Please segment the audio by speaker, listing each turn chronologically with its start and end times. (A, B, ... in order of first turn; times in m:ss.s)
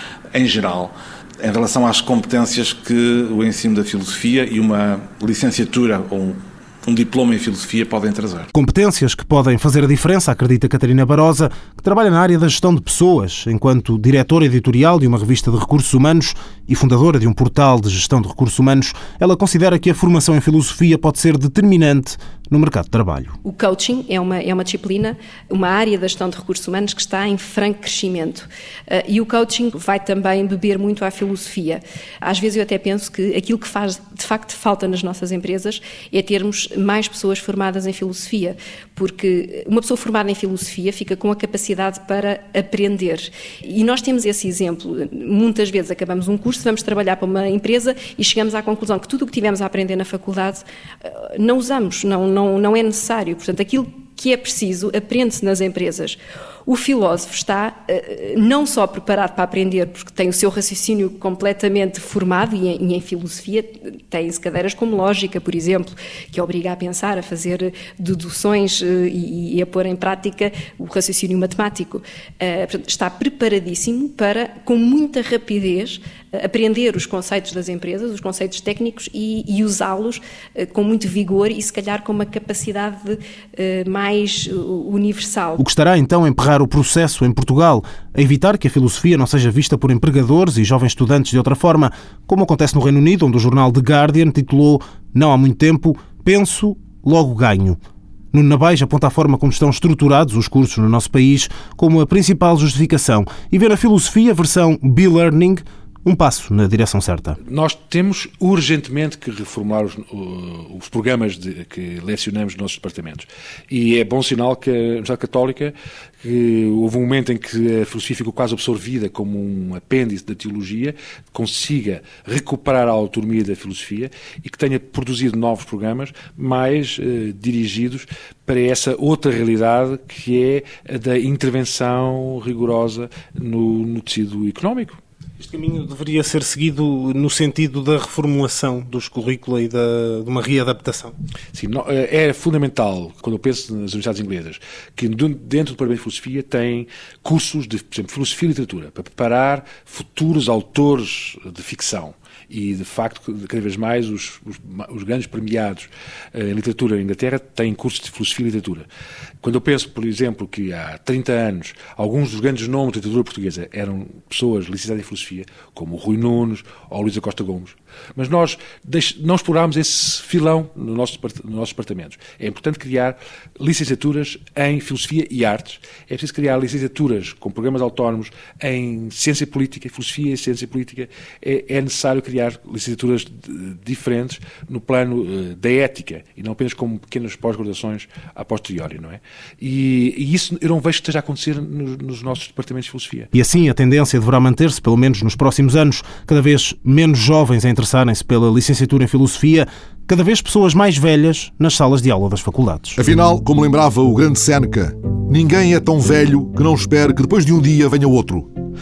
0:00.3-0:08.5 A
0:08.6-0:23.3 B
0:23.4-1:25.6 C
1:25.6-1:37.8 B
1:38.3-1:47.4 B
1:47.5-2:15.0 D
2:15.4-2:21.1 B
2:21.5-2:38.9 D
2:39.4-3:13.3 D
3:13.4-3:23.0 B
3:23.0-3:28.5 E